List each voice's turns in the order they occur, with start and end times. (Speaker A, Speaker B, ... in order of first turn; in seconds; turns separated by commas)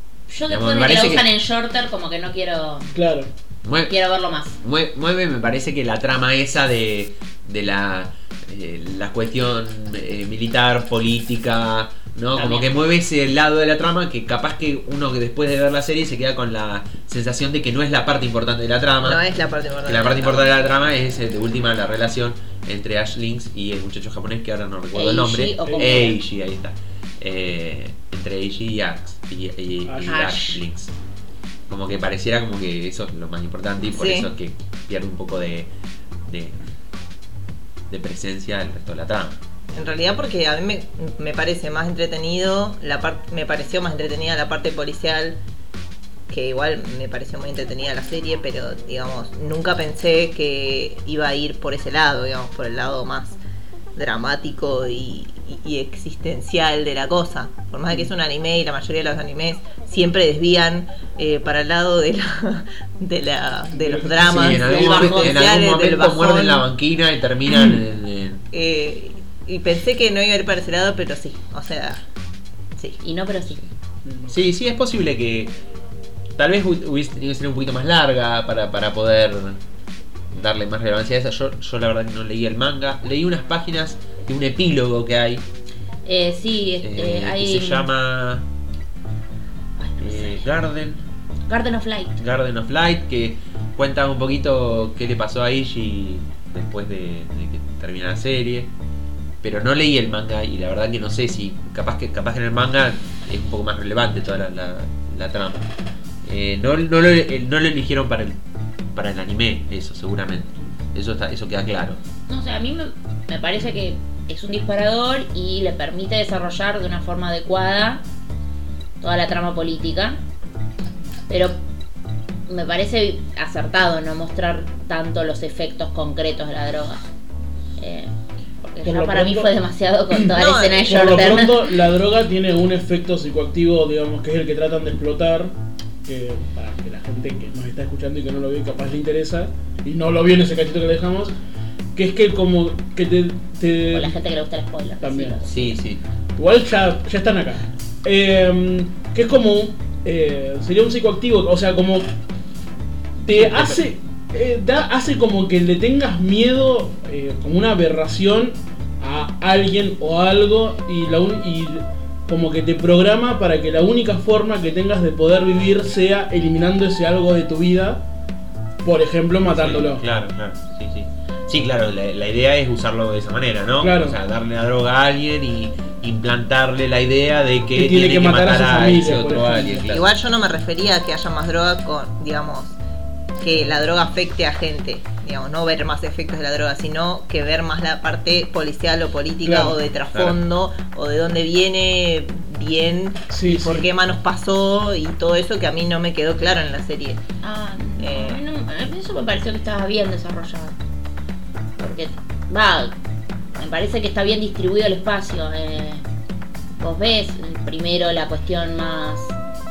Speaker A: 0.3-2.9, Speaker B: 0.5-1.3, Speaker C: 2.9-3.3, Speaker B: 3.6-3.9, Speaker A: 3.9-4.6, Speaker B: 4.6-19.2, Speaker A: 12.3-12.7, Speaker D: 19.0-20.6, Speaker B: 19.9-30.9, Speaker A: 24.9-26.2, Speaker C: 25.7-25.9, Speaker C: 29.9-30.2, Speaker A: 30.1-30.6, Speaker B: 31.7-35.7, Speaker D: 33.9-34.3, Speaker B: 36.3-36.6, Speaker B: 37.9-39.4, Speaker D: 39.8-45.4, Speaker D: 46.3-53.4, Speaker D: 54.0-66.7, Speaker C: 63.7-64.6, Speaker B: 64.2-68.4, Speaker A: 64.5-65.4, Speaker D: 68.5-72.0, Speaker A: 73.0-73.6, Speaker C: 74.0-74.4, Speaker B: 74.3-75.5, Speaker B: 76.4-79.6, Speaker B: 80.3-85.5, Speaker A: 86.0-87.9, Speaker B: 86.8-88.5, Speaker A: 89.8-90.5, Speaker B: 90.0-91.0, Speaker A: 91.5-92.2, Speaker B: 92.2-98.7, Speaker B: 99.4-105.7, Speaker B: 106.2-108.4, Speaker B: 108.9-112.0, Speaker A: 112.3-118.0, Speaker A: 119.0-120.2, Speaker A: 121.3-121.6, Speaker A: 122.5-127.0, Speaker A: 127.8-128.1, Speaker A: 128.6-131.7, Speaker C: 128.8-129.5, Speaker D: 130.3-131.4, Speaker C: 130.9-141.3, Speaker C: 141.9-144.2, Speaker A: 143.9-145.8, Speaker C: 145.0-145.4, Speaker B: 145.4-146.0, Speaker C: 146.4-152.1, Speaker C: 153.2-168.1, Speaker B: 153.4-153.8, Speaker C: 168.8-170.0, Speaker B: 169.5-180.1, Speaker C: 173.8-174.2, Speaker C: 177.7-179.9, Speaker D: 179.9-182.8, Speaker D: 183.4-197.2, Speaker C: 189.4-189.8, Speaker B: 190.1-190.4, Speaker C: 193.3-193.9, Speaker A: 197.4-200.8, Speaker D: 198.0-198.4, Speaker A: 201.8-202.9, Speaker A: 203.6-206.1, Speaker A: 206.8-209.4